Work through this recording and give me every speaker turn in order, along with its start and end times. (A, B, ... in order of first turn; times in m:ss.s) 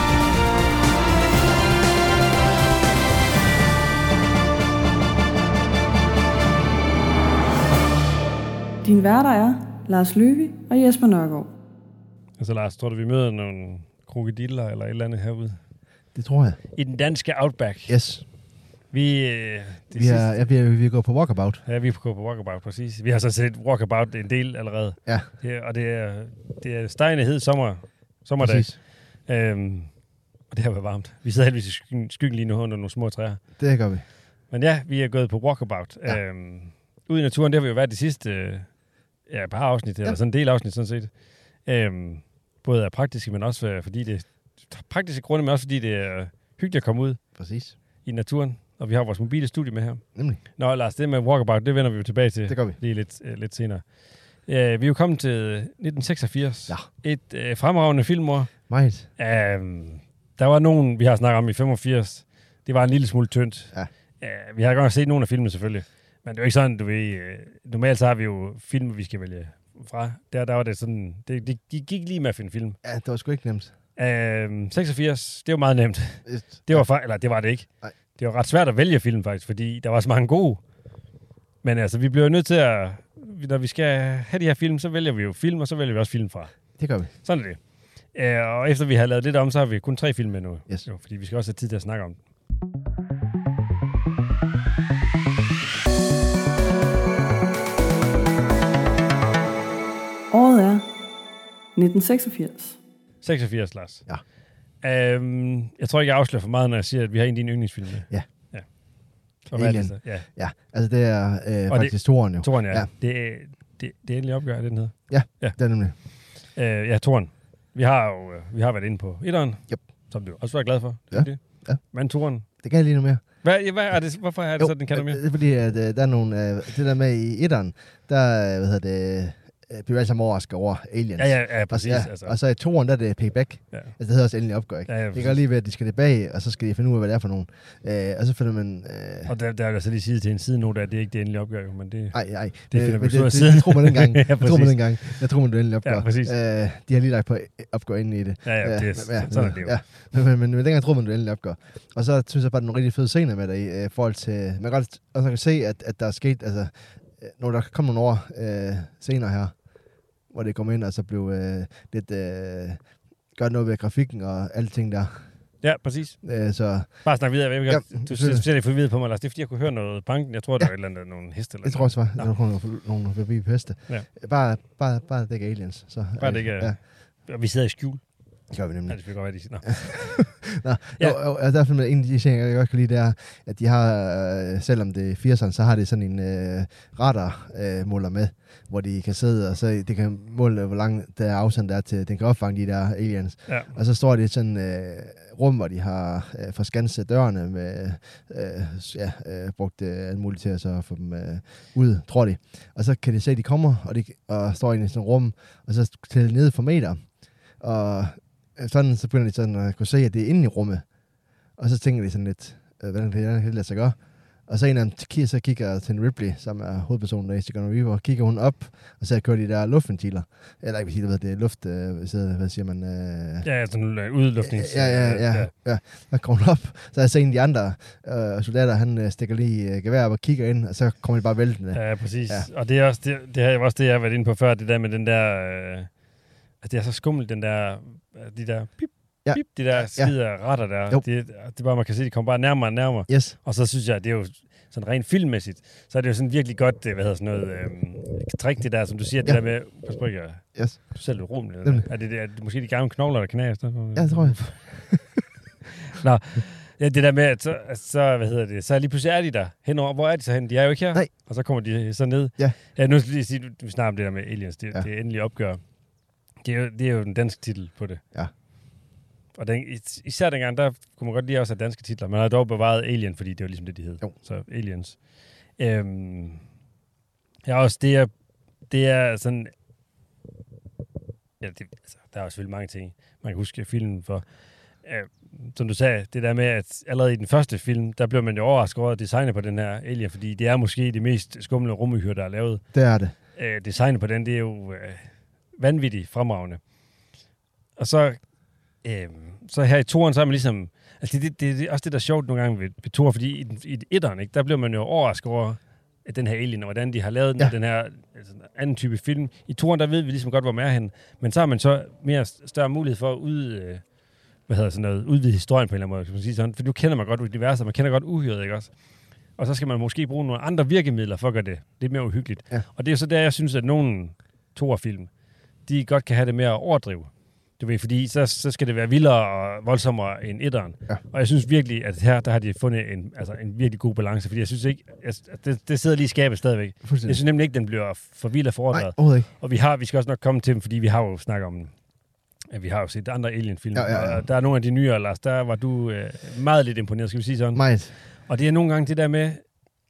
0:08.8-0:11.5 A
0:12.4-0:15.6 B
0:16.1-0:16.6 C
0:16.7-0:17.9 B
0:17.9-0:18.2 C
0:18.9-0:20.3 B
0:19.9-0:21.6 C
0:21.6-0:33.6 B
0:28.4-0:28.8 C
0:33.6-0:34.0 C
0:34.5-0:38.7 B
0:39.2-0:47.2 B
0:47.4-0:47.7 C
0:48.0-0:58.5 B
0:50.1-0:50.4 C
0:52.5-0:52.8 C
0:58.7-0:59.1 C
0:59.2-1:12.8 B
1:12.8-1:13.7 C
1:14.0-1:20.6 B
1:16.3-1:16.9 C
1:21.6-1:32.2 B
1:26.8-1:27.1 C
1:40.3-1:40.9 A
1:41.7-1:42.8 A
1:43.2-1:44.1 B
1:44.8-1:50.3 B
1:49.5-1:52.9 C
1:51.7-2:02.5 B
1:55.1-1:56.0 C
2:01.1-2:01.8 C
2:02.4-2:03.4 C
2:03.4-2:05.2 B
2:04.6-2:19.3 C
2:11.2-2:12.4 B
2:13.7-2:14.0 B
2:14.9-2:15.4 B
2:19.3-2:25.2 B
2:22.1-2:39.6 C
2:25.8-2:26.3 B
2:28.4-2:29.8 B
2:40.3-2:45.2 C
2:45.6-2:46.2 B
2:46.2-2:48.4 C
2:47.0-2:52.3 B
2:51.6-2:56.8 C
2:56.2-3:00.4 B
2:58.5-3:30.9 C
3:31.6-3:43.4 C
3:43.4-3:45.5 B
3:44.4-3:52.5 C
3:51.7-3:55.9 B
3:56.6-4:14.6 B
3:59.2-4:01.0 C
4:03.1-4:03.4 C
4:10.5-4:11.8 C
4:13.9-4:15.1 C
4:15.9-4:25.6 B
4:26.4-4:28.0 B
4:29.3-4:36.4 B
4:37.4-4:38.1 B
4:38.7-4:39.5 B
4:41.4-4:52.6 B
4:52.7-4:53.1 C
4:53.3-4:56.6 B
4:57.8-4:58.2 B
4:58.8-5:13.8 B
5:14.4-5:18.7 B
5:19.3-5:25.1 B
5:25.6-5:41.7 B
5:36.8-5:37.2 C
5:38.7-5:39.3 C
5:42.5-5:49.4 B
5:43.7-5:44.2 C
5:47.5-5:47.9 C